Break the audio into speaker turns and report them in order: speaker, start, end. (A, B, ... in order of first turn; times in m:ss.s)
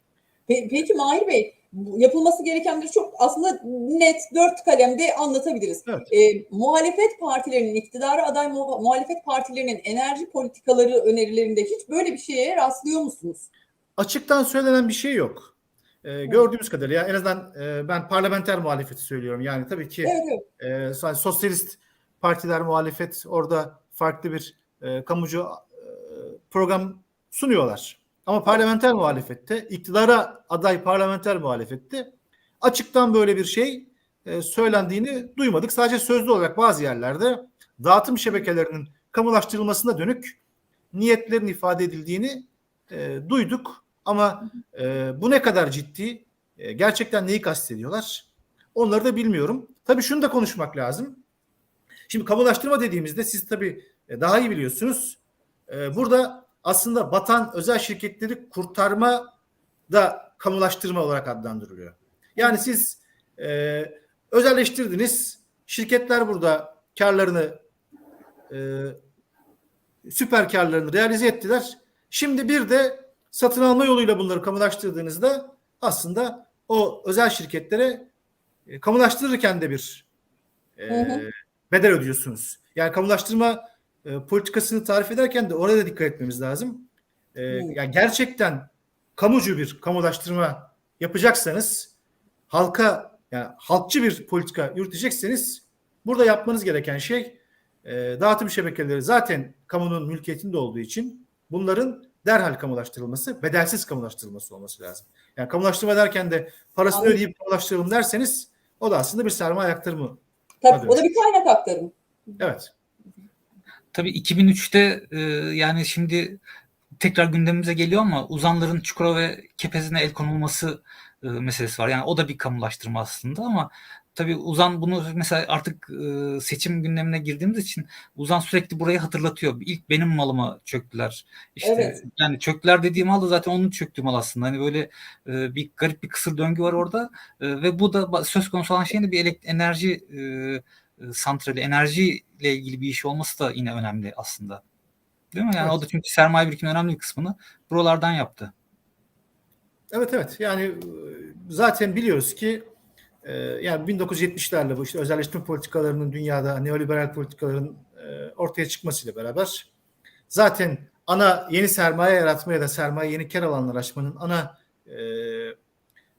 0:00.5-0:13.5 A
0:14.0-0:40.4 B
0:20.0-0:20.4 A
0:40.9-0:51.2 B
0:52.1-0:59.3 B
0:59.9-1:07.6 B
1:08.5-1:09.0 B
1:10.0-1:18.1 B
1:18.7-1:20.1 B
1:20.8-1:31.9 B
1:20.9-1:21.2 A
1:27.5-1:27.8 A
1:32.5-1:51.2 B
1:46.9-1:47.2 A
1:50.6-1:51.9 A
1:52.4-1:52.7 B
1:53.9-1:56.4 C
1:57.0-2:24.6 C
2:11.6-2:12.0 A
2:25.3-2:28.5 C
2:29.9-2:32.7 B
2:33.2-2:39.7 B
2:40.3-2:45.6 B